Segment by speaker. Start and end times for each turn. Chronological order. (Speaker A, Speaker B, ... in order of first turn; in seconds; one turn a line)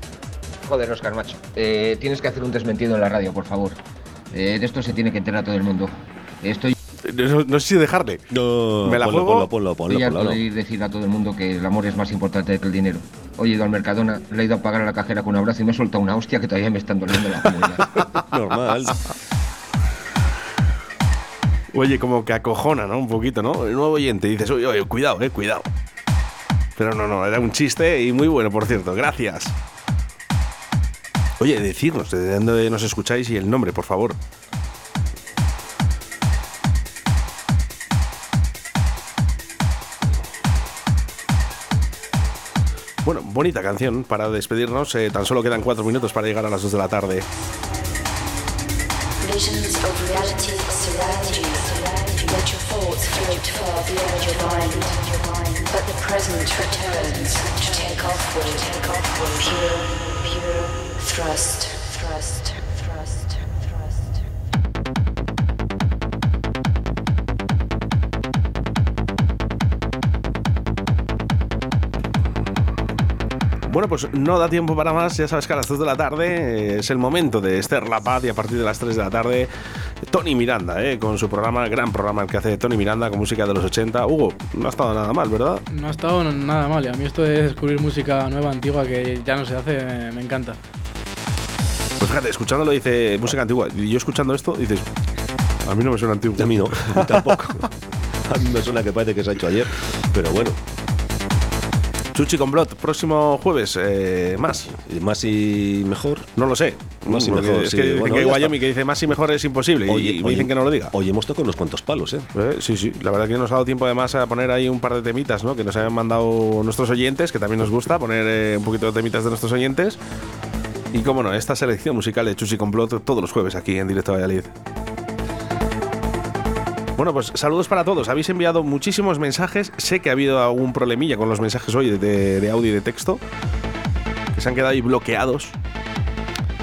Speaker A: 0.7-3.8
Speaker A: 4.3-6.7
Speaker B: 7.0-8.2
Speaker C: 8.3-10.4
Speaker B: 8.8-9.5
Speaker A: 9.9-17.8
Speaker C: 18.3-19.0
Speaker B: 21.7-25.7
Speaker B: 26.8-29.5
Speaker B: 31.4-34.2
Speaker B: 43.0-47.2
Speaker D: 49.2-63.3
Speaker B: 73.7-79.5
Speaker B: 80.0-85.6
Speaker E: 85.7-90.6
Speaker B: 92.0-94.8
Speaker B: 95.7-97.4
Speaker C: 96.4-97.7
Speaker C: 98.2-100.6
Speaker B: 102.1-104.7
Speaker C: 104.7-106.3
Speaker B: 106.4-110.9
Speaker C: 107.1-108.6
Speaker C: 109.9-112.3
Speaker B: 112.3-120.0
Speaker B: 120.9-124.5
Speaker B: 127.0-133.2
Speaker B: 134.3-135.6